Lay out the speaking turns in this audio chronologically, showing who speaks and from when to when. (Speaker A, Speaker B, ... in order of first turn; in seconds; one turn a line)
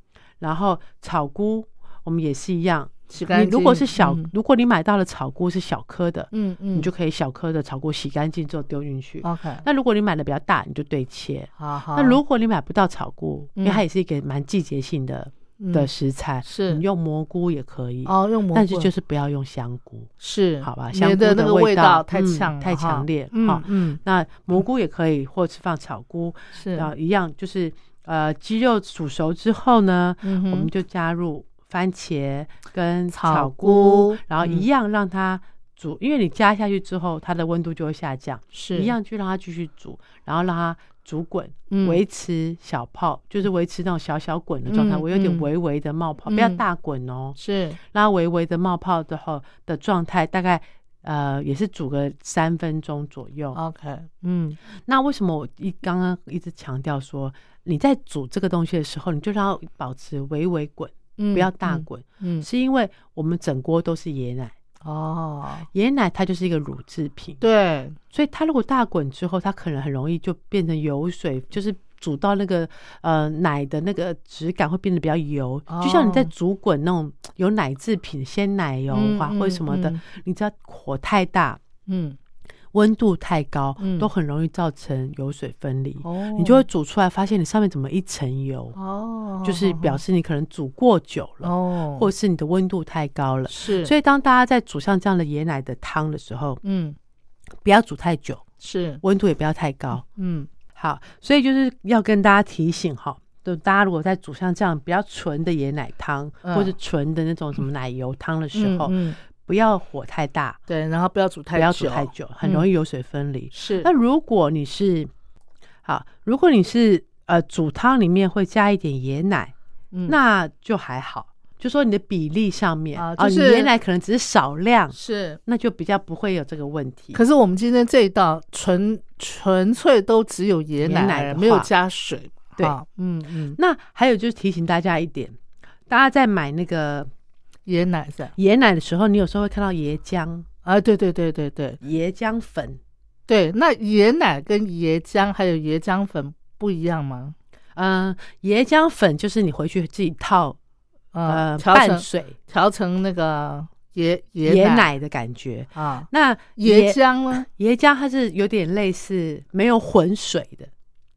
Speaker A: 0.4-20.1
Speaker B: 3.1-4.3
Speaker B: 6.3-6.9
Speaker B: 9.2-9.7
Speaker B: 11.6-12.2
Speaker B: 13.6-13.8
Speaker B: 15.6-15.9
Speaker B: 16.4-16.8
Speaker B: 18.1-18.9
Speaker B: 20.2-24.0
Speaker A: 20.6-47.4
Speaker B: 26.6-26.9
Speaker B: 30.2-30.7
Speaker B: 33.1-34.7
Speaker B: 38.5-38.9
Speaker B: 41.7-42.0
Speaker B: 44.7-45.5
Speaker B: 46.3-46.6
Speaker B: 47.4-47.8
Speaker A: 47.9-53.6
Speaker B: 53.5-54.6
Speaker A: 54.9-64.5
Speaker B: 61.2-62.5
Speaker B: 64.8-65.7
Speaker A: 65.7-67.4
Speaker B: 67.4-68.0
Speaker A: 68.1-81.6
Speaker B: 75.7-76.3
Speaker B: 78.9-80.0
Speaker B: 81.9-82.2
Speaker A: 82.7-88.8
Speaker B: 83.8-84.1
Speaker B: 86.0-86.7
Speaker B: 88.8-90.0
Speaker A: 89.4-96.6
Speaker B: 91.4-92.1
Speaker B: 93.5-93.9
Speaker B: 96.6-97.0
Speaker A: 97.6-98.4
Speaker B: 98.6-99.0
Speaker A: 99.0-100.0
Speaker B: 100.2-100.5
Speaker A: 100.8-110.6
Speaker B: 106.5-106.7
Speaker B: 108.6-109.2
Speaker B: 110.7-112.7
Speaker A: 111.5-115.1
Speaker B: 113.5-113.9
Speaker A: 115.8-119.5
Speaker A: 120.1-127.2
Speaker B: 123.0-123.7
Speaker B: 124.9-125.4
Speaker B: 127.1-133.6
Speaker A: 130.8-131.7
Speaker A: 133.6-135.4
Speaker A: 135.9-137.1
Speaker B: 137.7-138.3
Speaker A: 138.4-140.5
Speaker B: 140.7-141.8
Speaker A: 141.8-142.8
Speaker B: 143.3-147.3
Speaker A: 147.8-150.6
Speaker B: 151.1-154.9
Speaker A: 151.3-152.4
Speaker A: 154.4-160.7
Speaker B: 155.8-157.4